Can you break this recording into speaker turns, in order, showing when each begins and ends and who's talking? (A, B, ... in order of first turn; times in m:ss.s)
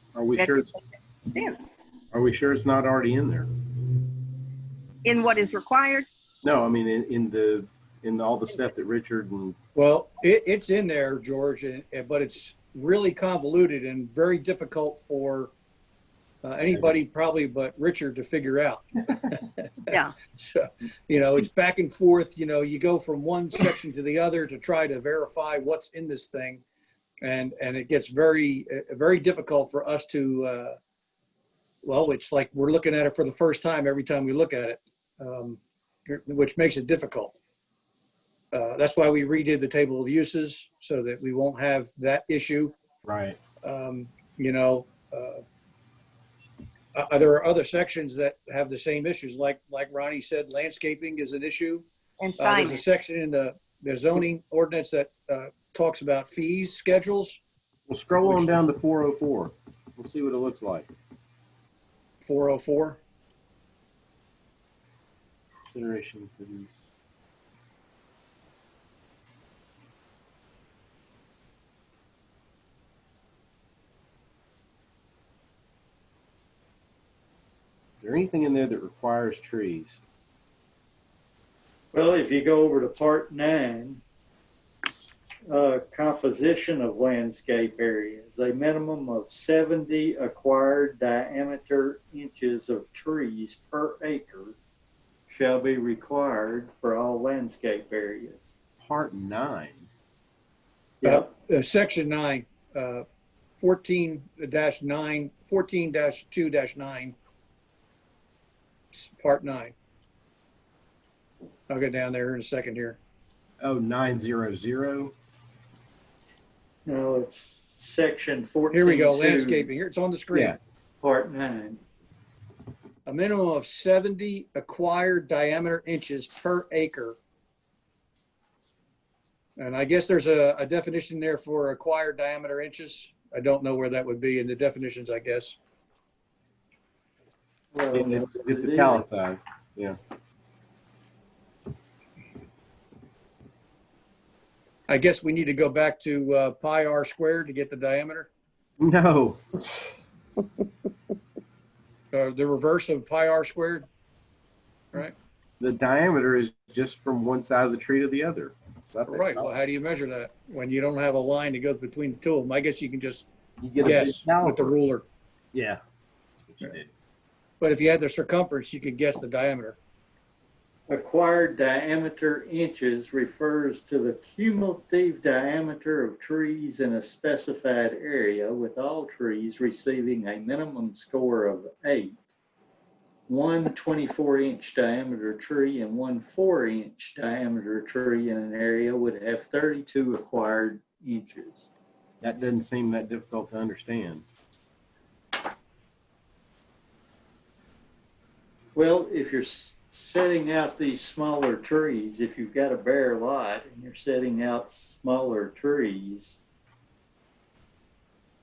0:00.1-0:00.7 A
0:00.4-0:01.9 B
0:02.1-0:03.5 A
0:05.0-0:06.0 B
0:06.4-0:09.6 A
0:09.7-0:15.5 C
0:16.4-0:26.6 C
0:16.7-0:17.0 A
0:27.2-0:30.8 C
0:31.8-0:37.4 C
0:38.5-0:42.8 C
0:43.0-0:43.4 A
0:43.6-0:45.4 C
0:46.9-0:51.8 C
0:52.2-0:52.8 B
0:52.4-0:57.4 C
0:57.9-1:00.9 A
0:58.2-0:58.5 C
1:02.2-1:03.0 C
1:05.7-1:06.7 A
1:18.0-1:20.0 A
1:21.9-1:24.0 D
1:25.5-1:34.6 D
1:35.3-1:38.4 D
1:38.8-1:39.9 A
1:41.0-1:41.3 D
1:41.0-1:43.0 C
1:43.6-1:47.2 C
1:48.9-1:49.7 C
1:51.7-1:53.0 C
1:53.6-1:55.1 A
1:56.8-1:59.7 D
1:58.7-2:00.6 C
2:00.3-2:00.6 A
2:01.0-2:01.8 D
2:03.0-2:07.2 C
2:09.6-2:15.6 C
2:17.7-2:19.0 D
2:17.9-2:20.0 A
2:24.9-2:28.3 C
2:28.8-2:29.4 A
2:32.1-2:33.9 C
2:35.6-2:39.5 A
2:39.1-2:43.3 C
2:43.6-2:44.7 A
2:43.8-2:45.0 C
2:45.5-2:45.8 A
2:46.4-2:46.9 A
2:47.6-2:49.8 C
2:50.9-3:02.2 D
3:03.3-3:11.6 D
3:12.2-3:14.2 A
3:18.7-3:26.4 D